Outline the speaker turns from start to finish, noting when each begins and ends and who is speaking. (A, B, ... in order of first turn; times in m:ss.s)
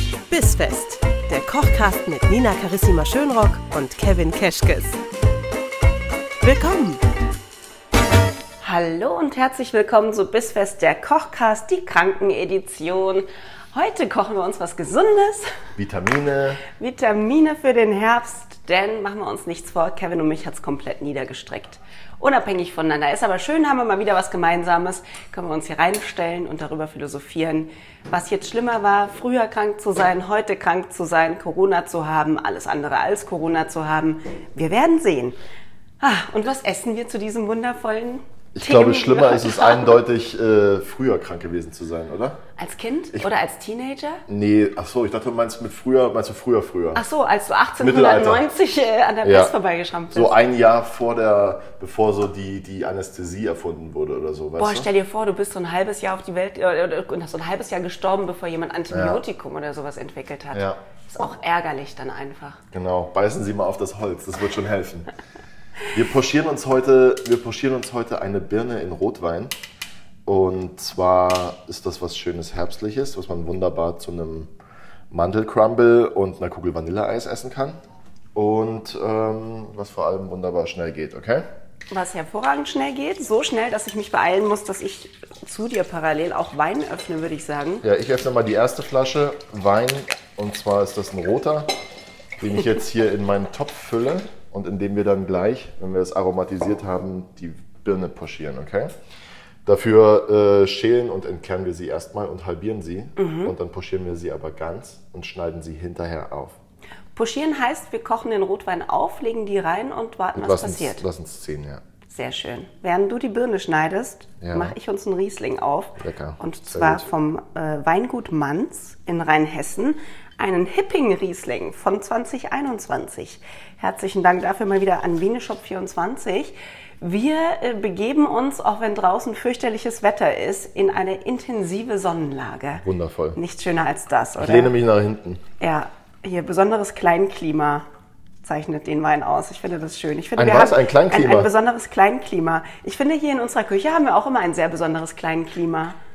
0:00.3-0:04.9 A
0:06.4-0:07.0 A
0:08.6-0:15.5 B
0:15.8-0:16.6 C
0:16.7-0:35.4 B
0:36.0-0:40.0 B
0:38.5-0:42.4 C
0:42.6-0:44.2 B
0:44.3-0:47.0 C
0:46.9-0:50.4 B
0:47.8-0:48.4 C
0:49.2-0:49.5 C
0:50.1-0:54.9 C
0:54.6-1:02.6 B
0:58.9-0:59.2 C
1:00.5-1:00.8 C
1:02.7-1:05.1 C
1:05.9-1:09.5 C
1:10.2-1:14.5 C
1:15.1-1:17.8 C
1:18.3-1:21.4 C
1:21.9-1:27.8 B
1:27.8-1:31.7 C
1:32.4-1:38.9 C
1:39.6-1:46.6 C
1:43.2-1:43.5 B
1:47.2-1:51.0 B
1:50.3-1:51.8 C
1:52.1-2:12.8 B
1:54.4-1:54.7 C
1:56.0-1:57.1 C
2:12.8-2:13.4 C
2:13.3-2:14.7 B
2:14.4-2:15.4 C
2:15.6-2:17.8 B
2:18.4-2:26.0 B
2:20.4-2:21.5 C